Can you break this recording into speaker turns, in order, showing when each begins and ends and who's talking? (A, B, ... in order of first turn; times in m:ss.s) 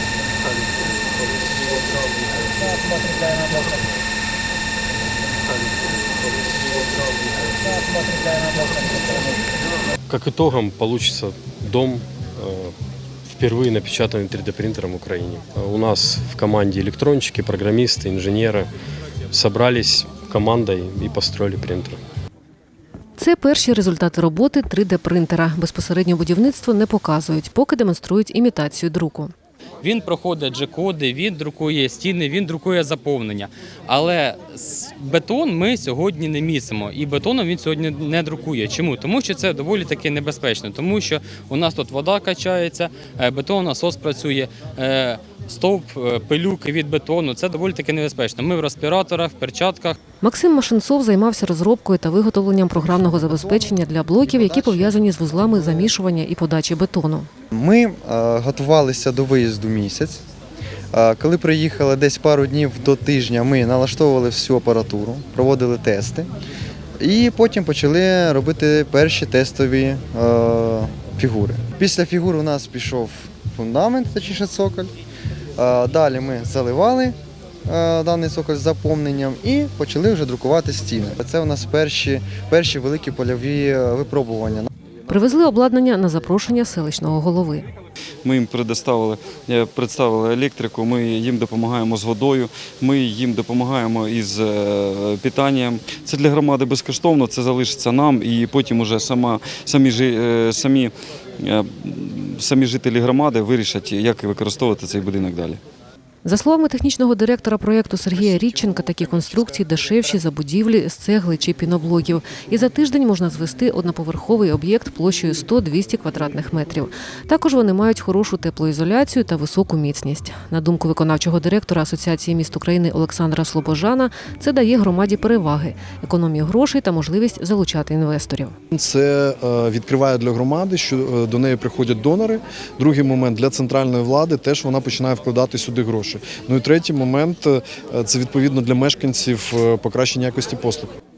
0:10.1-0:12.7 A
0:13.3-0:18.7 A
0:19.3-0:22.0 A
0:23.2-0:29.3 B
0:29.8-0:50.0 C
0:50.2-0:57.3 B
0:52.7-0:55.9 D
0:57.5-1:00.2 D
1:00.9-1:06.3 D
1:07.0-1:14.9 D
1:15.6-1:24.7 D
1:25.1-1:27.7 B
1:28.2-1:45.6 E
1:46.2-2:08.6 B
2:08.7-2:21.0 F